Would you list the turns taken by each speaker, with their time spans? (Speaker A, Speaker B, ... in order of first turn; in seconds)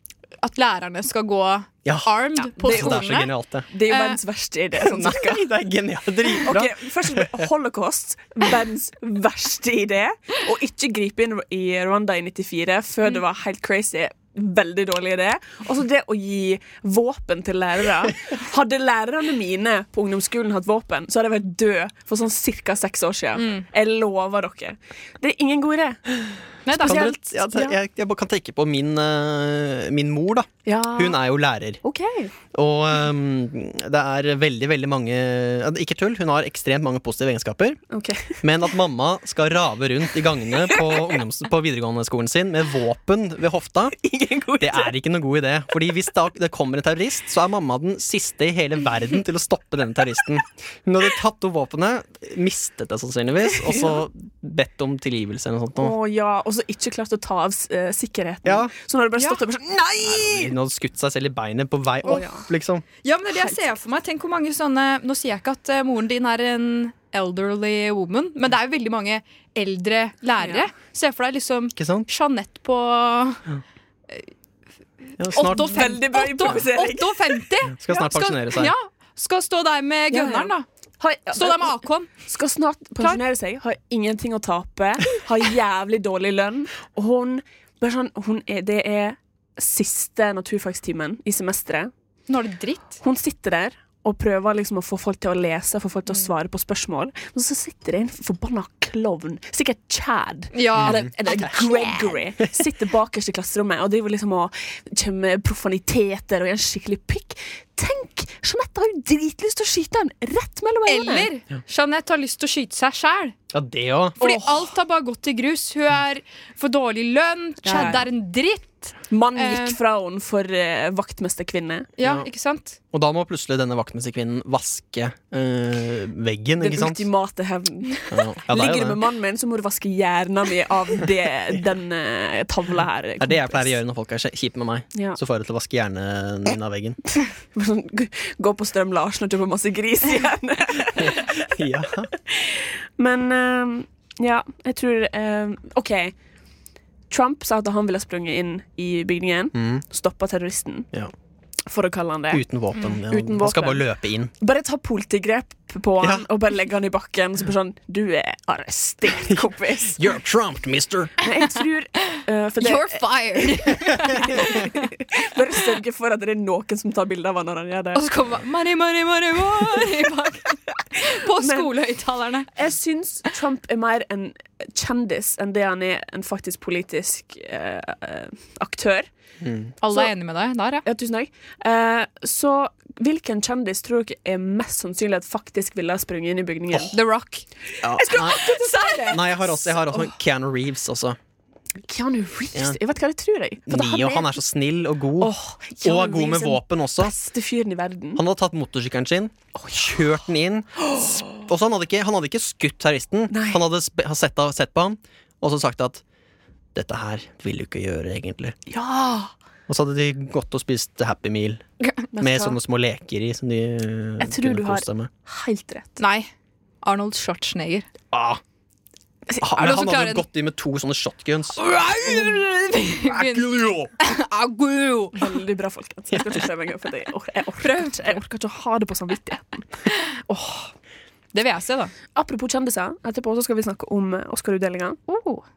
Speaker A: 0.4-3.3, 3.9-4.2, 23.4-23.6, 26.6-27.1, 63.0-73.4, 75.2-80.7, 81.3-82.1, 92.3-93.0, 100.5-101.1, 110.9-113.3, 114.2-119.8, 122.0-122.8, 162.6-164.9, 167.9-172.5, 179.8-180.8, 186.9-187.4, 188.6-189.0, 216.0-216.3, 216.8-217.9, 219.5-220.2, 221.6-223.5, 224.0-225.3, 227.6-228.2, 231.3-231.9, 235.1-235.4
Speaker B: 2.4-3.1, 3.7-5.5, 6.4-26.0, 26.7-27.8, 30.6-31.2, 31.8-32.3, 37.9-38.4, 40.7-41.1, 44.0-44.9, 53.5-54.0, 55.8-60.5, 62.0-62.5, 70.4-70.7, 75.4-77.4, 80.1-91.9, 93.0-111.3, 114.2-114.7, 117.6-118.1, 119.1-121.9, 126.6-133.8, 134.9-135.2, 137.5-141.5, 142.2-146.1, 147.1-150.9, 151.7-153.8, 154.4-160.1, 161.2-168.0, 171.4-171.7, 172.5-179.1, 180.8-187.0, 187.8-190.1, 191.8-194.4, 195.2-198.2, 199.5-200.2, 200.8-201.4, 203.3-203.6, 208.7-209.3, 212.1-212.6, 214.2-216.0, 225.2-229.7, 230.3-230.6, 232.2-235.0
Speaker C: 2.6-3.7, 4.8-7.5, 26.8-31.8, 32.5-37.8, 38.4-44.0, 44.6-55.9, 58.4-58.7, 60.0-62.8, 71.8-72.1, 75.2-75.9, 77.7-78.7, 100.7-101.6, 113.5-114.2, 122.0-122.3, 122.9-127.0, 128.1-129.0, 133.2-137.0, 141.0-142.1, 149.5-149.8, 152.3-154.3, 159.9-161.1, 179.4-179.7, 187.8-191.2, 193.7-197.1, 198.2-206.0, 206.7-208.6, 209.7-211.6, 212.2-215.1, 218.1-218.4, 219.4-222.4, 223.0-223.9